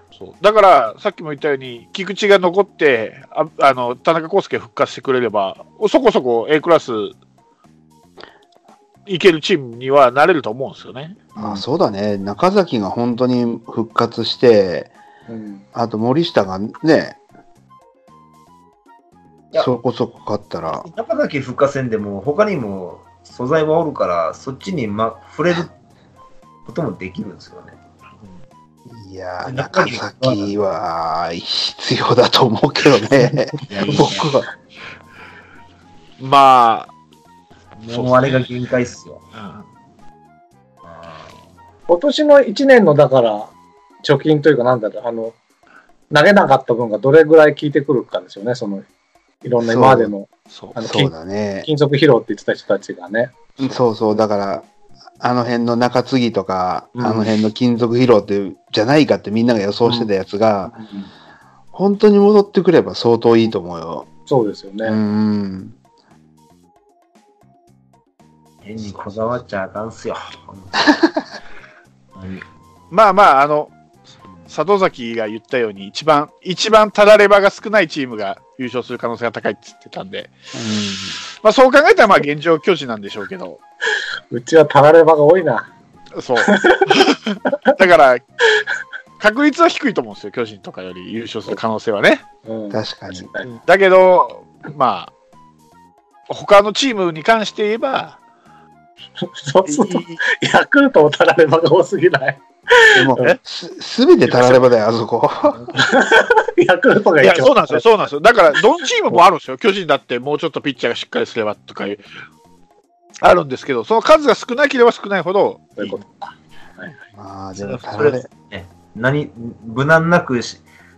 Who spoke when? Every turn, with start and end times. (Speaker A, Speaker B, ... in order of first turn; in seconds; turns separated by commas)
Speaker A: 0.1-7.2, Speaker A: 9.1-11.6, Speaker B: 11.3-14.9, Speaker C: 15.3-15.6, Speaker B: 15.7-17.2, Speaker B: 19.6-20.9, Speaker D: 20.7-25.7, Speaker D: 26.6-27.8, Speaker B: 28.9-34.5, Speaker D: 29.4-30.5, Speaker D: 33.7-34.3, Speaker A: 36.2-36.9, Speaker D: 37.8-39.2, Speaker A: 37.9-38.5, Speaker A: 39.3-39.7, Speaker D: 40.8-41.4, Speaker C: 41.9-43.5, Speaker C: 44.0-45.3, Speaker C: 46.1-48.8, Speaker C: 49.4-51.1, Speaker B: 49.6-50.1, Speaker A: 50.5-50.8, Speaker B: 50.8-51.7, Speaker C: 51.6-53.5, Speaker B: 53.6-54.7, Speaker B: 55.2-60.8, Speaker C: 57.0-57.4, Speaker C: 60.7-61.1, Speaker B: 61.7-64.1, Speaker C: 64.3-65.0, Speaker B: 64.8-65.8, Speaker D: 68.6-71.1, Speaker D: 72.2-72.5, Speaker A: 72.9-73.7, Speaker A: 74.5-80.3, Speaker B: 80.5-81.2, Speaker A: 81.4-83.6, Speaker C: 84.3-85.7, Speaker A: 86.1-88.2, Speaker C: 86.4-86.9, Speaker A: 89.2-92.2, Speaker C: 92.4-93.5, Speaker B: 92.7-93.3, Speaker A: 93.4-95.1, Speaker A: 96.3-98.2, Speaker C: 99.2-103.3, Speaker A: 99.7-100.2, Speaker B: 102.9-105.9, Speaker C: 104.3-104.6, Speaker C: 105.7-107.8, Speaker A: 107.2-112.0, Speaker A: 113.2-116.0, Speaker C: 115.8-117.0, Speaker B: 117.1-118.3, Speaker D: 117.5-120.6